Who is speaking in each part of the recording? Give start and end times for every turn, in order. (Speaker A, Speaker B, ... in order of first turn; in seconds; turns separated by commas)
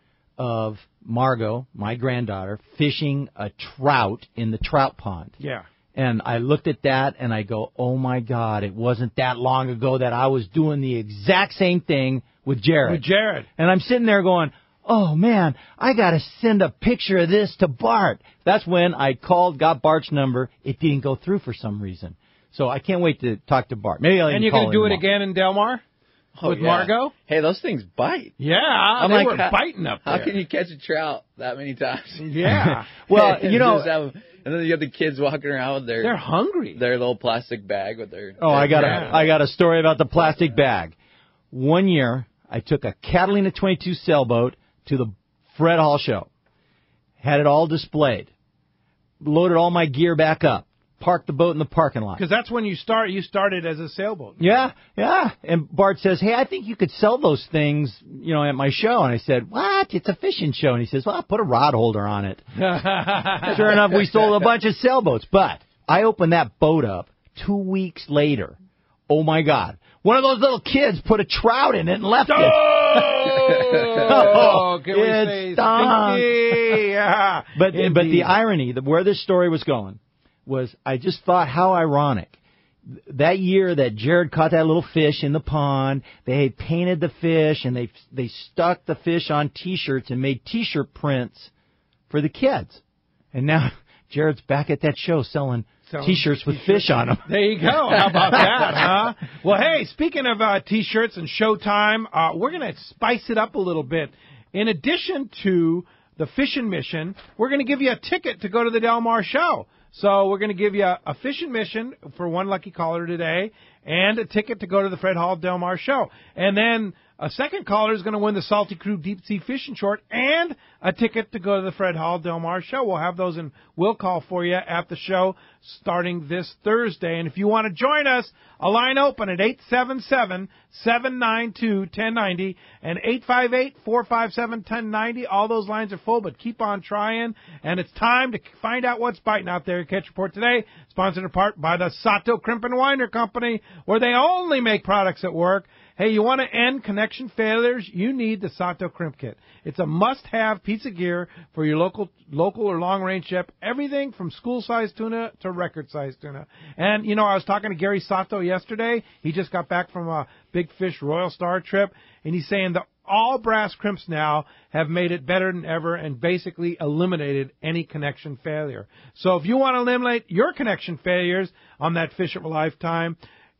Speaker A: 0.4-5.3, Speaker B: 5.4-5.7, Speaker A: 5.9-13.0, Speaker B: 12.8-13.5, Speaker A: 13.6-25.0, Speaker B: 24.3-25.8, Speaker C: 26.3-28.4, Speaker B: 26.4-27.1, Speaker B: 28.4-30.3, Speaker C: 28.9-39.4, Speaker B: 32.2-32.9, Speaker A: 32.5-33.9, Speaker B: 36.0-36.8, Speaker A: 38.4-40.9, Speaker B: 38.6-39.1, Speaker A: 41.5-46.3, Speaker A: 47.2-48.3, Speaker A: 49.2-52.2, Speaker B: 52.2-54.6, Speaker A: 54.4-62.5, Speaker B: 62.5-63.8, Speaker A: 63.4-68.5, Speaker C: 63.5-64.2, Speaker A: 69.1-73.4, Speaker B: 72.3-78.3, Speaker C: 73.5-74.4, Speaker A: 74.1-76.8, Speaker A: 77.5-91.5, Speaker A: 92.1-92.8, Speaker A: 93.3-97.3, Speaker B: 95.9-173.2, Speaker A: 98.3-98.9